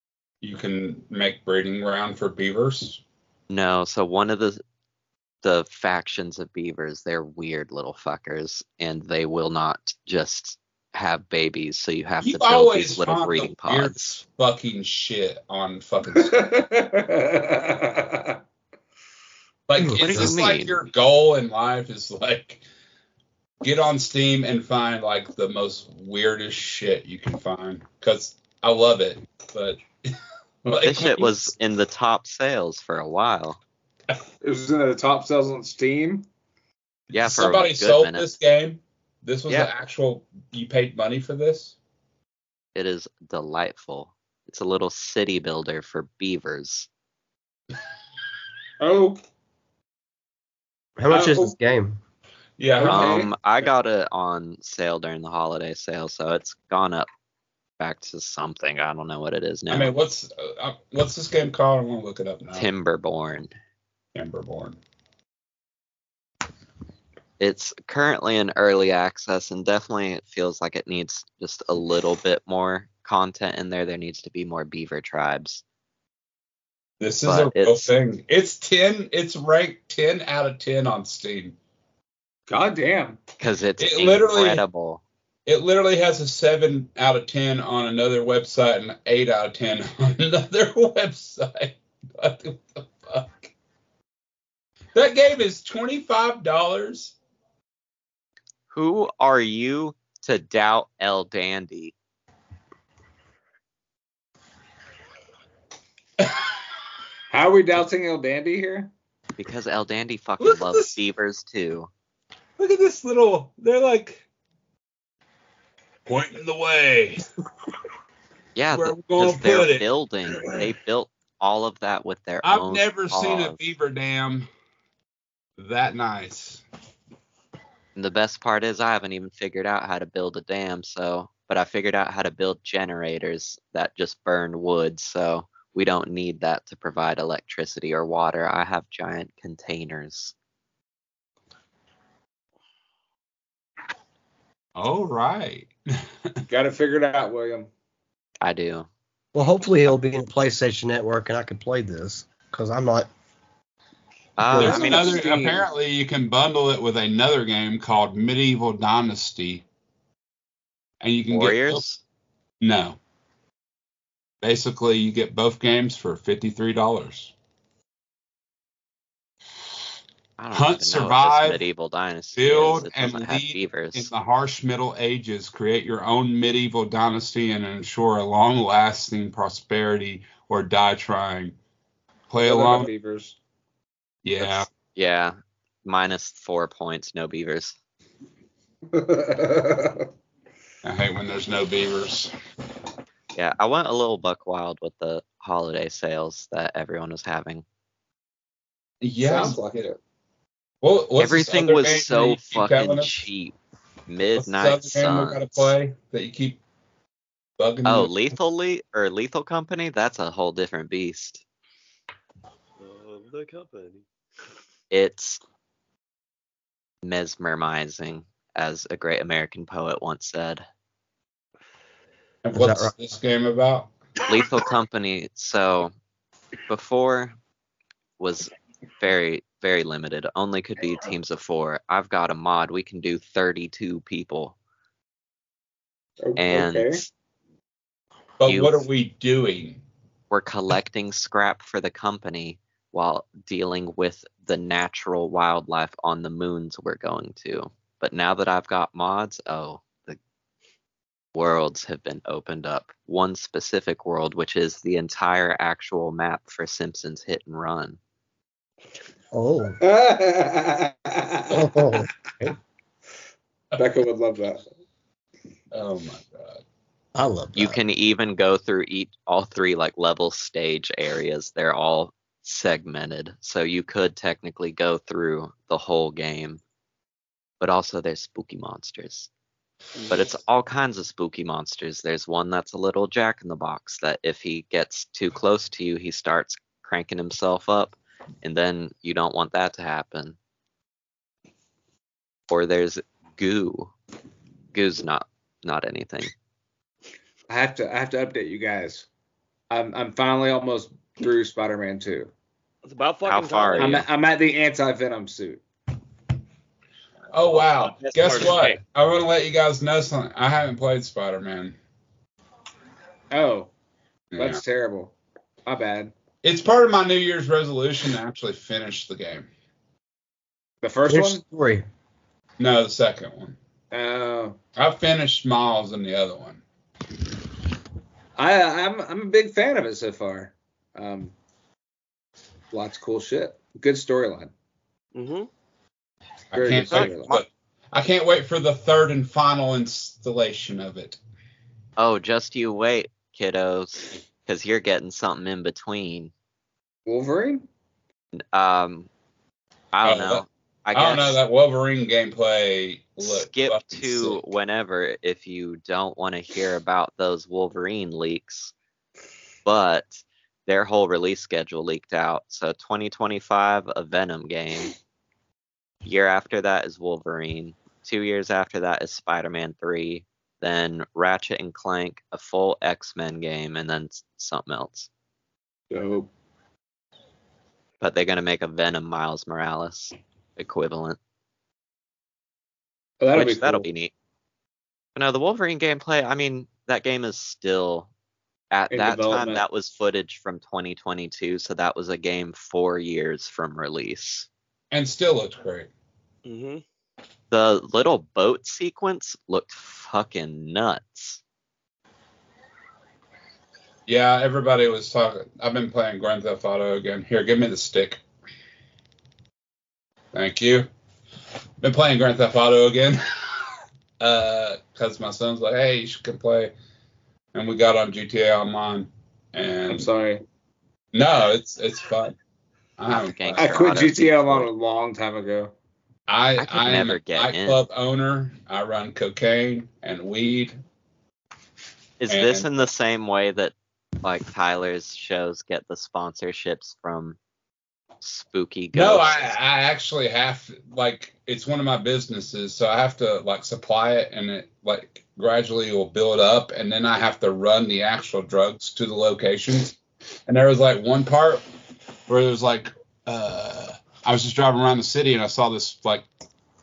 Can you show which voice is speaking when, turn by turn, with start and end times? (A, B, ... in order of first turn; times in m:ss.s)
0:00.4-0:03.0 A
0:03.5-0:04.6 B
0:05.4-0:14.2 B
0:12.2-0:16.3 A
0:16.1-0:18.4 C
0:19.7-0:22.6 A
0:19.8-0:20.3 D
0:19.9-0:20.8 B
0:23.6-0:29.8 A
0:30.6-0:31.5 A
0:30.8-0:33.6 B
0:34.4-0:36.3 C
0:37.1-0:41.8 A
0:37.1-0:38.3 B
0:42.8-0:46.9 B
0:48.8-0:49.2 C
0:51.0-0:52.0 D
0:51.1-0:51.5 A
0:52.6-0:53.3 A
0:52.8-0:53.3 C
0:52.8-0:57.1 B
0:57.8-0:59.9 B
0:59.7-1:02.7 A
1:02.5-1:03.5 B
1:04.2-1:04.8 A
1:07.4-1:15.6 B
1:17.0-1:21.6 A
1:17.2-1:17.9 B
1:22.5-1:23.2 C
1:23.4-1:25.0 B
1:23.8-1:24.6 A
1:25.5-1:33.5 A
1:34.9-1:37.2 A
1:38.7-1:41.9 B
1:47.3-1:48.9 C
1:49.4-1:51.9 B
1:50.4-1:51.0 A
1:52.6-1:54.2 A
1:56.1-1:57.2 A
1:58.6-2:03.6 B
1:58.7-1:59.9 A
2:02.4-2:04.5 A
2:05.6-2:06.6 A
2:08.0-2:20.3 B
2:24.8-2:25.7 A
2:26.5-2:27.7 C
2:28.4-2:28.9 B
2:29.3-2:33.1 D
2:34.4-2:35.5 B
2:34.5-2:35.1 D
2:34.6-2:39.6 A
2:34.6-2:35.6 C
2:41.0-2:41.8 A
2:41.3-2:42.0 B
2:42.6-2:43.0 A
2:44.4-2:47.3 A
2:50.4-2:54.1 B
2:50.5-2:51.6 A
2:52.4-3:01.6 A
3:02.3-3:02.9 A
3:02.4-3:03.4 C
3:04.2-3:04.7 A
3:04.4-3:07.8 B
3:08.9-3:10.1 C
3:10.8-3:12.3 A
3:13.4-3:17.6 B
3:19.0-3:19.6 A
3:19.2-3:20.0 C
3:20.8-3:23.2 A
3:21.2-3:23.6 B
3:24.1-3:25.7 B
3:24.4-3:26.6 A
3:27.6-3:28.1 A
3:27.8-3:31.4 B
3:32.8-3:34.0 E
3:34.9-3:35.4 B
3:37.0-3:40.6 B
3:42.4-3:43.9 A
3:42.5-3:42.9 D
3:44.2-3:45.9 B
3:46.7-3:47.4 B
3:48.2-3:54.6 B
3:56.2-3:57.0 C
3:56.4-3:57.1 B
3:58.4-3:59.8 A
3:58.5-3:58.8 B
4:00.3-4:10.2 B
4:11.4-4:18.0 B
4:19.3-4:19.8 D
4:19.8-4:22.1 C
4:21.5-4:22.6 D
4:23.8-4:24.6 C
4:25.7-4:26.6 A
4:27.2-4:27.8 D
4:27.6-4:36.6 B
4:37.6-4:39.3 B
4:40.1-4:50.4 B
4:52.5-4:53.9 B
4:54.7-4:56.3 B
4:57.5-4:59.1 C
4:59.7-5:02.3 C
5:02.8-5:04.0 E
5:03.3-5:04.0 B
5:03.8-5:05.6 C
5:07.3-5:11.8 A
5:07.5-5:08.8 E
5:13.3-5:13.7 C
5:14.3-5:14.6 A
5:14.4-5:15.1 C
5:15.7-5:16.1 C
5:16.4-5:19.5 A
5:20.8-5:21.4 C
5:21.1-5:21.9 D
5:22.6-5:23.6 A
5:23.9-5:24.6 C
5:24.8-5:26.6 A
5:28.4-5:31.3 C
5:32.7-5:34.5 C
5:35.2-5:35.5 E
5:36.5-5:41.2 A
5:36.6-5:37.4 C
5:42.0-5:46.3 B
5:47.1-5:47.6 C
5:48.3-5:49.1 B
5:49.9-5:51.4 B
5:50.0-5:54.4 A
5:53.2-5:58.7 B
5:59.6-6:04.9 B
6:06.0-6:15.1 B
6:15.9-6:16.3 C
6:18.0-6:21.2 B
6:23.2-6:23.9 C
6:23.3-6:24.1 B
6:25.2-6:28.1 B
6:28.7-6:34.5 B
6:28.9-6:29.6 C
6:34.9-6:35.9 A
6:36.4-6:36.8 E
6:37.5-6:41.4 B
6:44.1-6:48.2 A
6:50.3-6:50.9 A
6:51.8-6:53.2 A
6:54.2-6:56.7 A
6:57.5-7:00.1 A
6:59.9-7:00.4 C
7:01.1-7:02.4 A
7:03.0-7:03.7 A
7:03.1-7:04.7 B
7:03.6-7:05.7 C
7:06.3-7:10.7 A
7:06.6-7:07.8 B
7:12.2-7:17.4 B
7:12.3-7:12.7 A
7:18.2-7:19.6 B
7:18.9-7:31.6 A
7:32.3-7:36.3 A